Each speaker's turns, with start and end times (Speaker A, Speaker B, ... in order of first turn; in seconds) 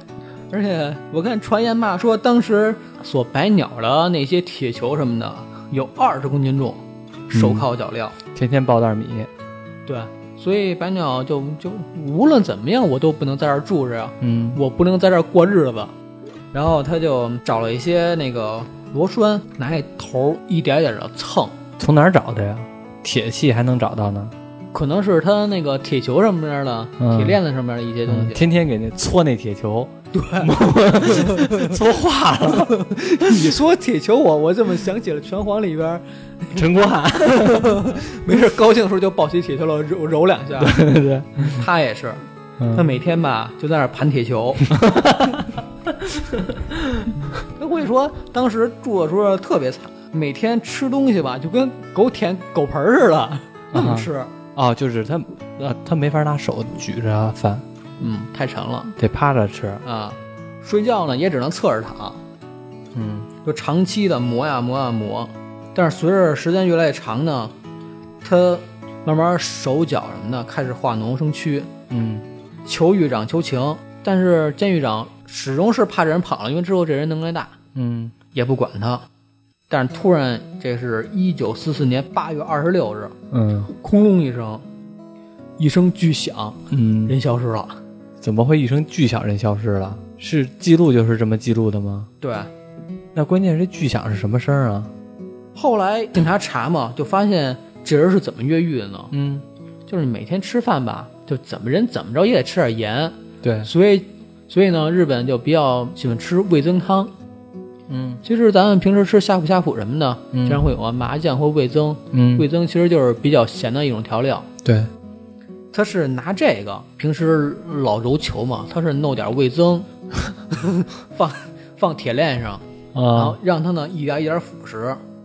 Speaker A: 0.5-8.2, 9.8-15.9, 16.5-21.6, 24.7-28.4, 30.1-31.8, 32.7-36.6, 37.2-40.8, 41.4-44.8, 47.3-54.3, 58.0-58.9, 59.8-62.2, 63.4-67.5, 68.2-71.7, 72.6-77.5, 78.3-79.0, 79.7-83.2, 83.7-84.6, 85.6-87.8, 92.2-92.5, 95.5-99.1, 99.9-107.1, 108.2-114.5, 115.7-119.9, 120.5-125.0
Speaker B: 7.3-7.7, 8.3-9.3, 14.2-14.6, 21.8-24.3, 27.0-27.4, 28.1-33.5, 36.5-37.9, 40.6-41.6, 42.6-42.9, 44.7-47.1, 53.7-57.6, 59.0-59.8, 62.9-63.3, 71.9-72.2, 77.7-78.1, 83.3-83.7, 86.7-87.1, 88.2-92.1, 93.1-94.9, 99.1-99.4, 103.4-103.7, 107.9-108.2, 110.3-110.6, 112.1-112.5, 114.6-114.9, 122.9-123.4